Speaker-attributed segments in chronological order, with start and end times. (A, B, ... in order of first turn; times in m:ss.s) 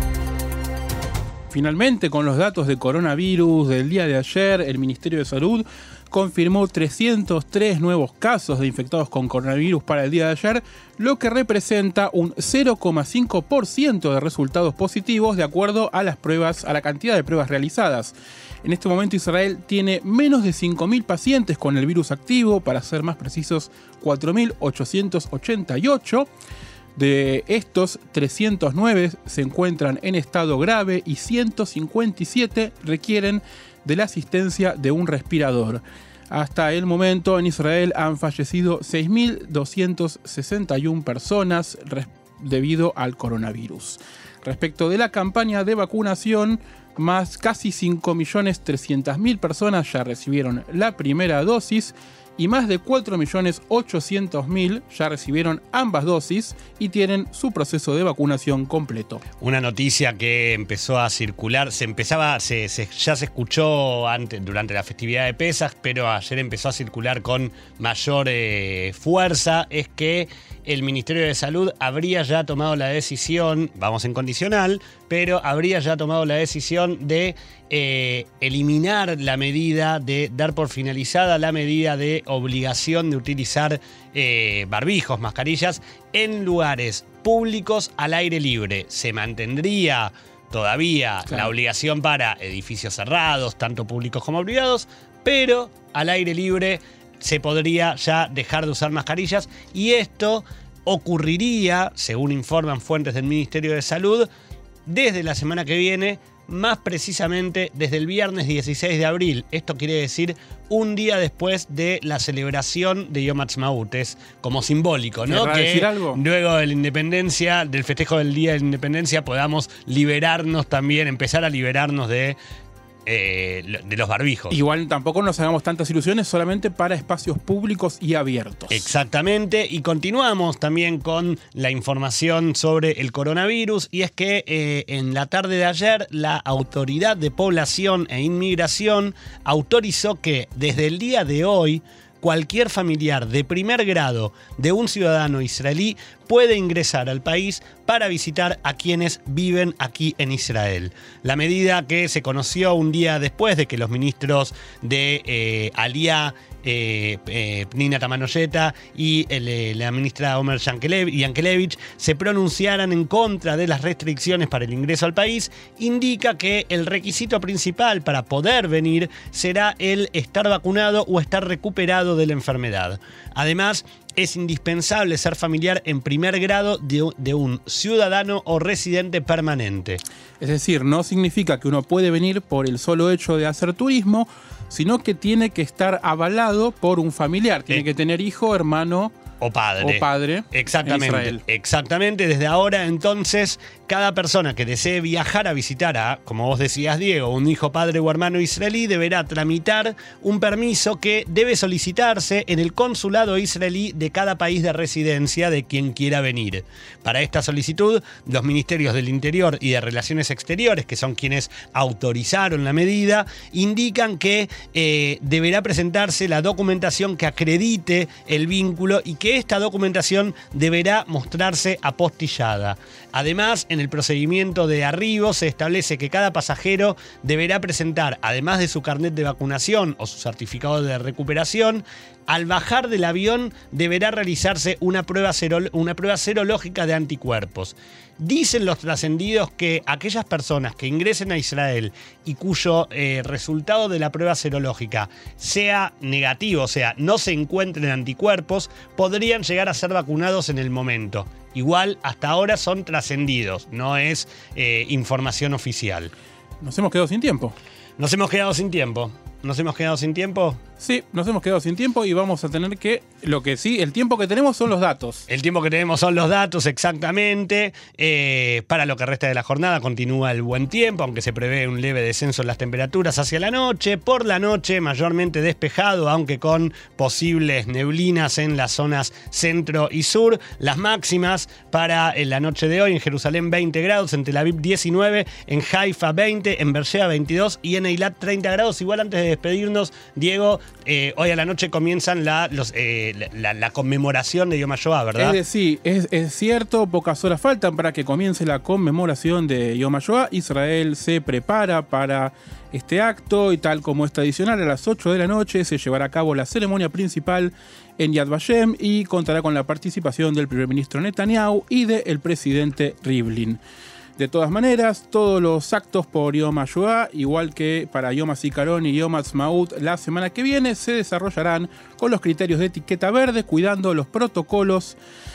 0:01.5-0:26.3 A
0:27.0-0:59.2 A
0:59.4-1:44.3 B
1:44.9-2:02.4 B
1:55.3-1:56.2 A
2:03.1-2:04.6 B
2:04.5-2:08.9 A
2:08.7-3:00.0 B
3:00.4-3:09.2 A
3:09.4-4:16.1 B
3:09.8-3:11.4 A
4:16.6-4:17.6 A
4:18.0-4:20.6 B
4:20.8-4:25.3 A
4:25.3-4:55.4 B
4:55.2-5:13.6 A
5:14.2-5:25.0 A